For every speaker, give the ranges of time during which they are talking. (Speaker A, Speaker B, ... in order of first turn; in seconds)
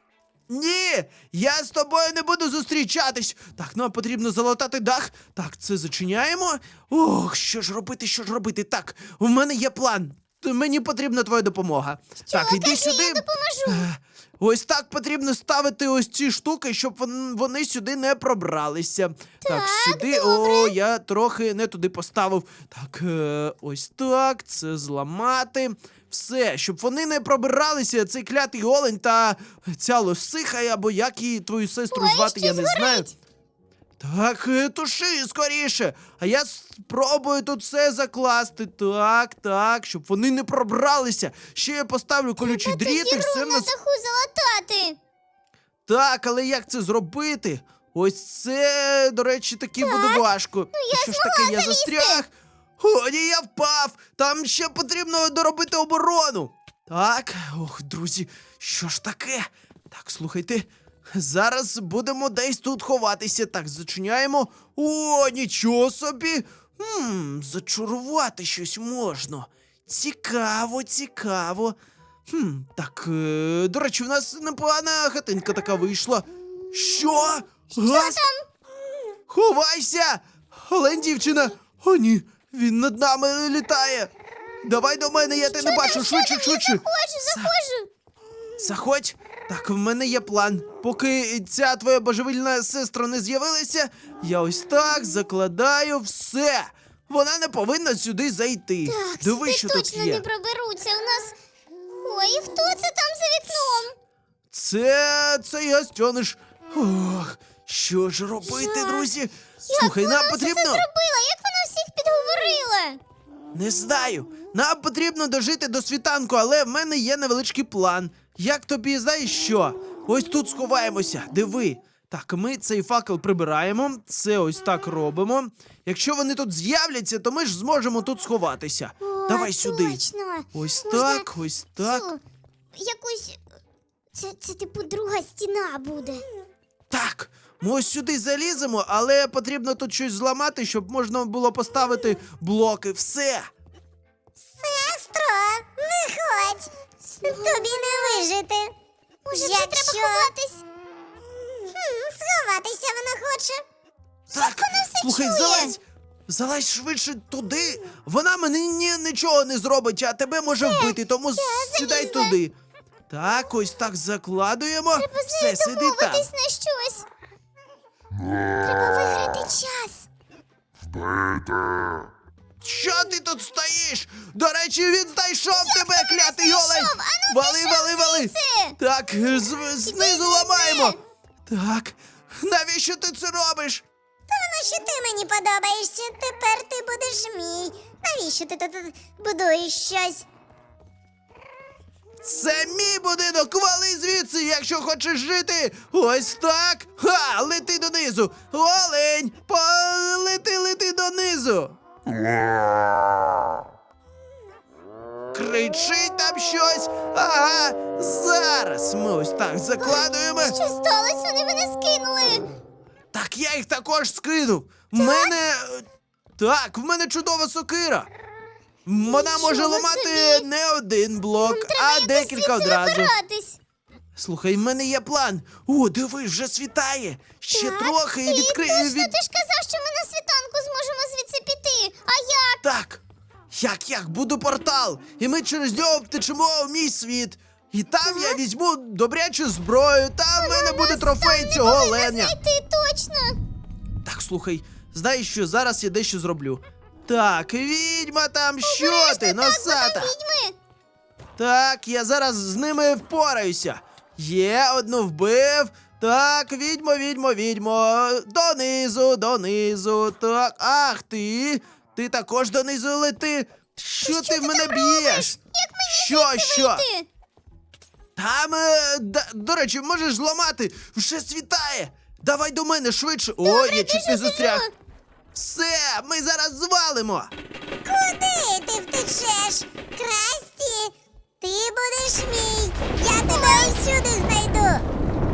Speaker A: 0.5-33.1, 34.0-43.7, 45.9-71.8, 72.3-78.2, 79.3-84.1, 84.6-87.5, 88.6-100.2, 104.5-110.8, 113.5-130.0, 130.5-132.1, 136.9-143.5, 154.3-162.5, 163.1-166.3, 172.6-183.8, 192.2-201.8, 205.3-210.6, 213.1-215.8, 216.4-218.1, 218.8-223.1, 224.2-229.1, 232.6-242.3, 244.0-250.1, 251.4-265.4, 265.9-266.8, 268.1-274.6, 275.3-277.3
Speaker B: 12.2-13.9, 19.4-20.7, 31.9-33.1, 42.4-45.0, 49.8-52.2, 77.7-78.5, 85.4-87.9, 98.8-101.3, 102.0-104.0, 108.4-109.1, 109.6-113.0, 129.0-131.3, 131.8-132.2, 132.7-133.4, 134.1-136.2, 147.2-148.0, 149.2-150.6, 154.3-155.8, 160.6-162.3, 164.9-167.1, 168.6-170.1, 175.5-178.8, 179.8-181.0, 209.8-212.5, 214.9-215.3, 219.1-220.4, 221.4-223.6, 227.5-232.6, 238.0-238.4, 240.3-243.4, 248.6-250.5, 264.0-267.1, 273.4-274.7, 283.1-283.8
Speaker C: 144.6-146.7, 147.2-148.7, 149.3-150.3, 151.4-153.6, 184.3-190.2, 277.8-284.9